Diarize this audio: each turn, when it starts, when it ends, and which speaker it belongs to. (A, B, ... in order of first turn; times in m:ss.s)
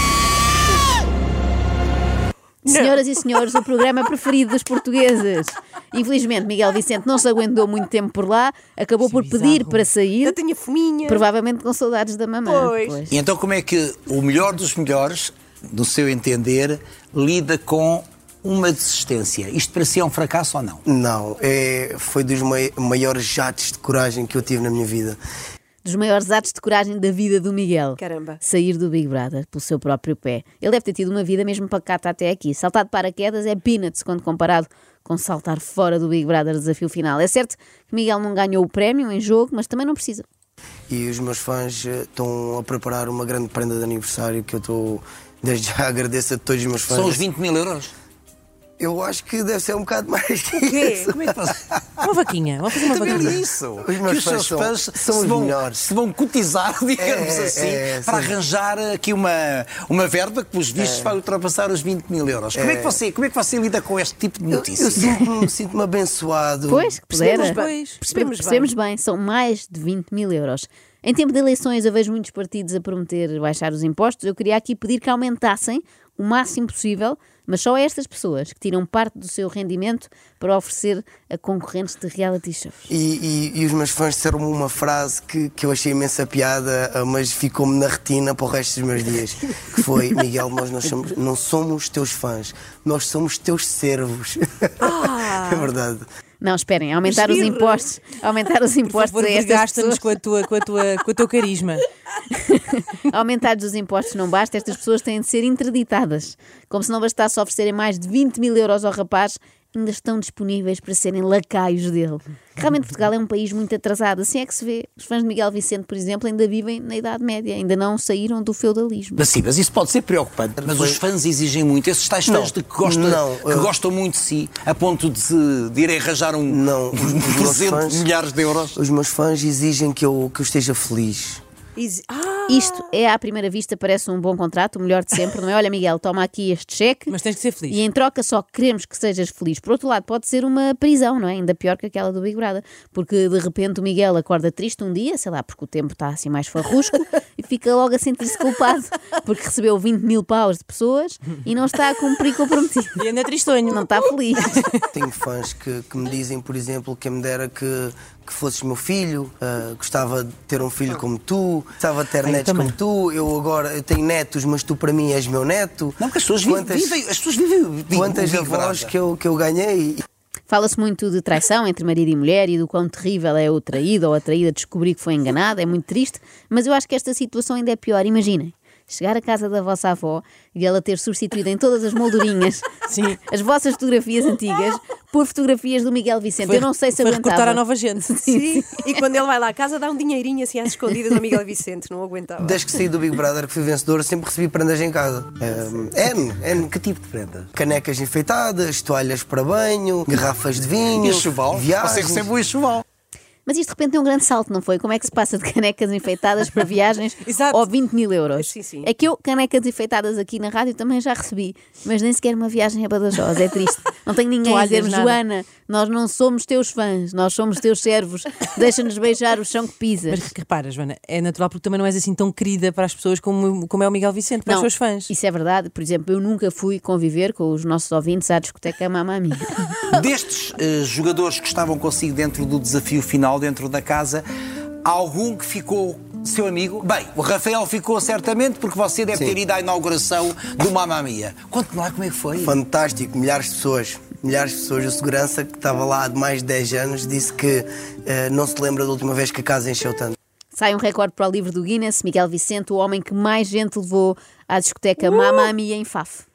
0:02.6-0:03.0 A
0:02.6-0:10.4 B
0:09.0-0:09.9 C
0:10.2-0:11.3 A
0:11.0-0:13.1 B
0:12.5-0:13.0 A
0:13.1-0:20.8 D
0:20.8-0:25.2 E
0:25.8-0:40.2 B
0:28.0-0:28.4 A
0:40.9-0:47.3 E
0:46.9-0:47.9 D
0:48.8-0:51.5 E
0:50.6-0:51.1 A
0:51.1-0:51.7 D
0:52.0-0:53.4 C
0:52.8-1:05.2 D
0:53.0-0:55.9 E
0:57.0-0:58.4 E
1:00.8-1:01.2 E
1:02.5-1:03.0 E
1:04.5-1:07.0 E
1:06.7-1:22.9 B
1:07.1-1:08.7 A
1:07.3-1:08.0 C
1:22.9-1:36.0 E
1:34.8-1:35.7 A
1:36.4-1:40.1 B
1:37.0-1:37.8 A
1:38.8-1:41.8 C
1:42.4-1:59.3 B
1:59.2-2:08.8 D
2:00.6-2:01.0 E
2:02.2-2:03.7 E
2:06.5-2:08.1 E
2:08.7-2:11.4 E
2:11.8-2:12.9 A
2:12.5-2:17.1 B
2:17.1-2:17.8 C
2:17.7-2:33.0 B
2:33.0-2:33.9 C
2:33.7-2:34.5 B
2:34.4-2:34.8 C
2:34.9-2:47.0 E
2:42.2-2:42.7 C
2:46.0-2:48.9 D
2:47.9-2:50.0 E
2:50.5-3:02.7 B
3:02.9-3:03.2 C
3:03.3-3:08.6 B
3:06.4-3:08.2 C
3:08.2-3:12.6 A
3:12.4-3:16.7 E
3:16.1-3:17.5 D
3:17.5-3:22.3 E
3:20.9-3:22.8 D
3:23.4-3:40.2 B
3:27.2-3:27.6 C
3:28.4-3:28.9 A
3:34.4-3:35.2 C
3:40.1-3:45.1 C
3:44.4-3:49.6 B
3:49.9-3:54.2 D
3:54.8-4:02.6 D
4:02.4-4:10.2 E
4:10.5-4:16.2 B